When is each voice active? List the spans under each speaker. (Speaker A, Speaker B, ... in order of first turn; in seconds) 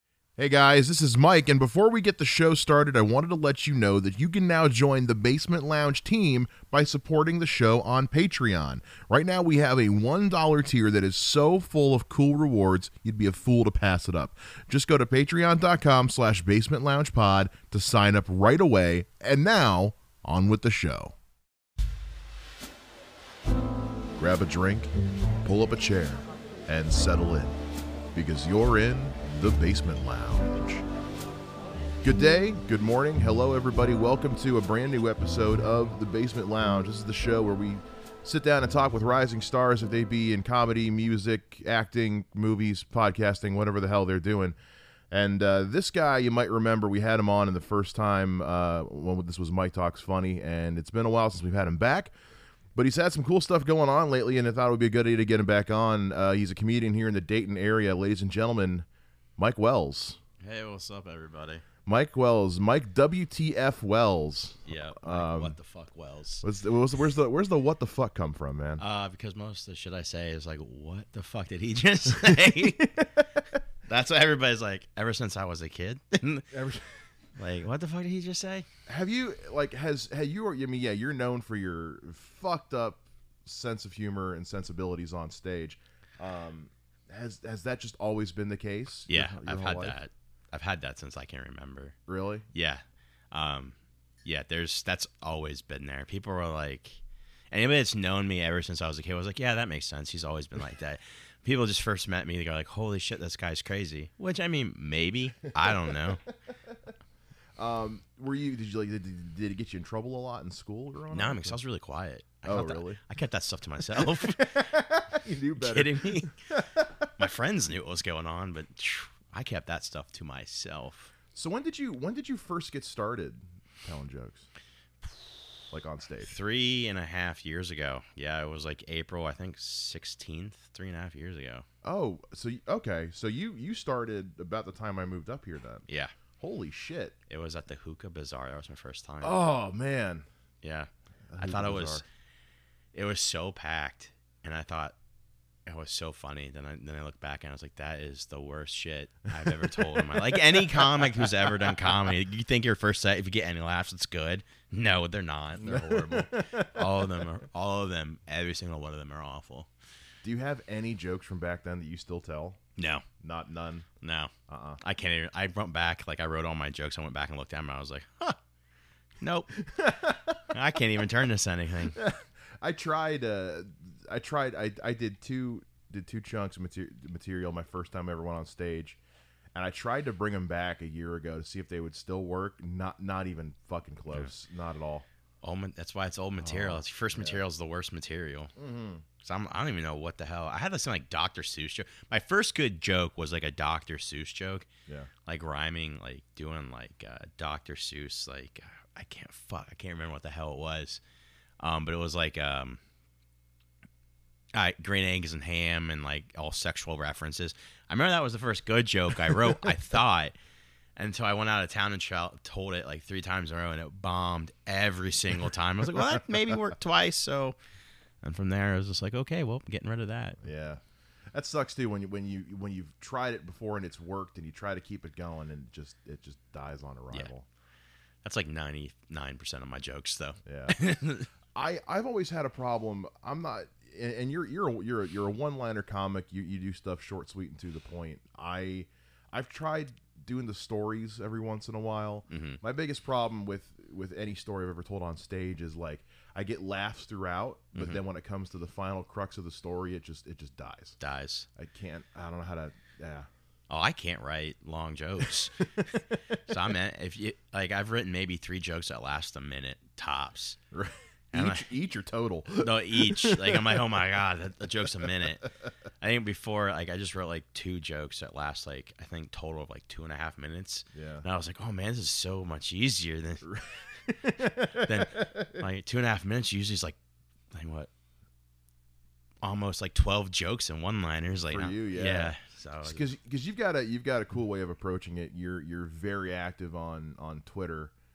Speaker A: 0.4-21.1, 24.2-24.9, 25.4-27.6, 28.1-30.9, 32.0-44.6, 45.1-52.1, 52.8-58.9, 59.4-60.2, 61.9-65.6, 66.4-68.8, 72.2-73.3, 76.5-77.0, 78.9-90.0, 92.1-92.5, 105.6-106.2, 107.6-111.6, 112.5-113.0, 113.9-117.1, 121.3-124.5, 125.7-126.3, 131.8-135.8, 136.4-137.2, 139.2-140.3, 141.3-142.0, 149.4-152.1, 155.6-157.2, 160.2-162.6, 163.2-163.9, 164.5-164.8, 169.6-170.4, 171.9-179.0, 179.6-185.1, 186.4-187.4, 188.6-189.0, 220.4-220.8, 221.3-227.5, 230.4-230.8, 231.6-251.0, 251.6-253.3, 255.8-256.3, 260.7-263.9, 270.9-271.2, 273.4-275.6, 281.5-287.9
Speaker B: 60.4-61.6, 64.7-66.4, 68.8-73.0, 73.9-76.5, 77.4-78.7, 89.1-92.0, 92.5-97.0, 97.5-106.2, 111.1-114.7, 115.6-116.3, 117.2-121.1, 126.2-131.7, 135.9-136.1, 137.3-139.4, 140.6-142.1, 142.9-144.9, 145.7-159.7, 162.8-163.1, 164.0-168.4, 169.2-169.6, 170.5-172.0, 185.4-188.5, 189.2-194.7, 195.2-201.0, 201.6-202.8, 204.5-210.3, 211.0-217.6, 218.2-220.4, 228.2-231.3, 242.3-242.6, 247.8-248.0, 251.0-251.5, 253.7-255.7, 256.5-260.6, 261.3-261.7, 262.5-273.5, 274.6-277.0, 277.5-277.9, 279.4-283.1